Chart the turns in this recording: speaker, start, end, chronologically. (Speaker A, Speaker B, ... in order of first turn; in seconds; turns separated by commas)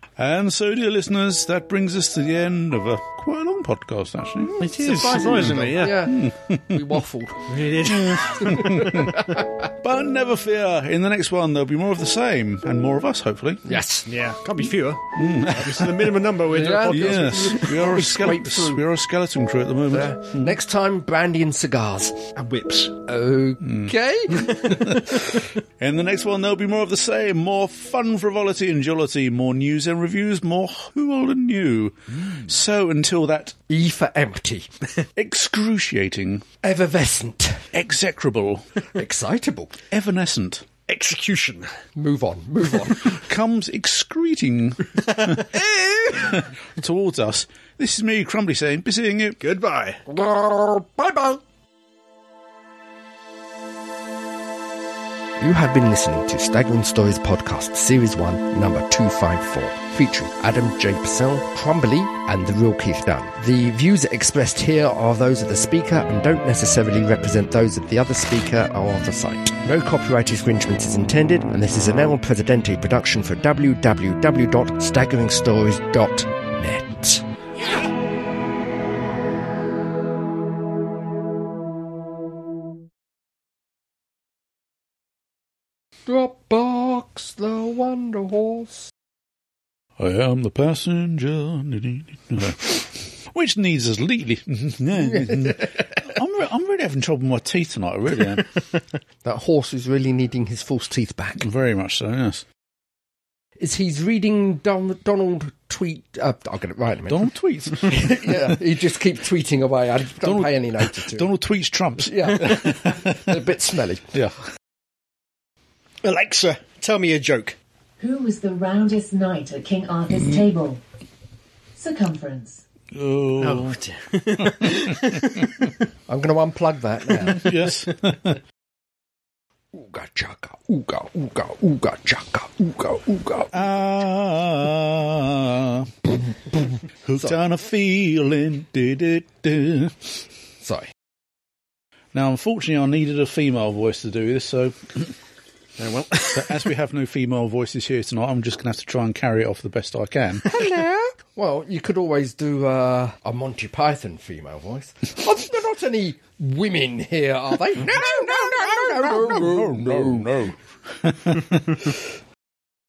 Speaker A: 0.2-7.0, Speaker B: 4.6-6.1, Speaker C: 4.6-7.5, Speaker B: 7.5-9.3, Speaker A: 7.9-9.2, Speaker C: 8.4-9.6, Speaker A: 9.8-13.8, Speaker C: 13.6-14.1, Speaker B: 14.1-17.8, Speaker A: 15.2-16.1, Speaker C: 16.5-18.8, Speaker A: 16.9-20.5, Speaker C: 19.9-22.2, Speaker B: 22.4-22.9, Speaker C: 23.0-25.2, Speaker A: 23.6-23.9, Speaker A: 24.9-25.2, Speaker A: 25.8-33.5, Speaker C: 33.7-34.7, Speaker A: 35.1-36.4, Speaker C: 36.6-37.6, Speaker A: 37.7-38.6, Speaker C: 38.9-39.8, Speaker A: 39.9-40.6, Speaker B: 40.9-41.7, Speaker C: 42.0-43.2, Speaker A: 43.1-45.5, Speaker C: 45.5-46.4, Speaker A: 46.1-49.4, Speaker B: 49.4-50.0, Speaker C: 50.1-51.4, Speaker C: 55.4-77.2, Speaker C: 86.1-88.9, Speaker A: 90.0-98.5, Speaker C: 95.0-95.8, Speaker C: 99.2-101.5, Speaker A: 101.4-102.4, Speaker C: 103.6-107.3, Speaker A: 107.1-108.5, Speaker C: 107.8-111.3, Speaker A: 110.2-113.4, Speaker C: 112.0-114.1, Speaker B: 116.0-117.5, Speaker D: 118.0-120.8, Speaker D: 121.8-122.6, Speaker A: 122.9-123.8, Speaker B: 123.4-125.7, Speaker A: 124.5-124.8, Speaker C: 126.1-127.5, Speaker A: 127.2-128.4, Speaker C: 129.7-133.5, Speaker A: 133.5-135.9, Speaker A: 137.0-140.2, Speaker C: 140.6-140.9, Speaker A: 142.1-145.1, Speaker B: 145.8-146.7, Speaker A: 146.3-150.4, Speaker C: 150.5-160.4, Speaker A: 157.9-161.9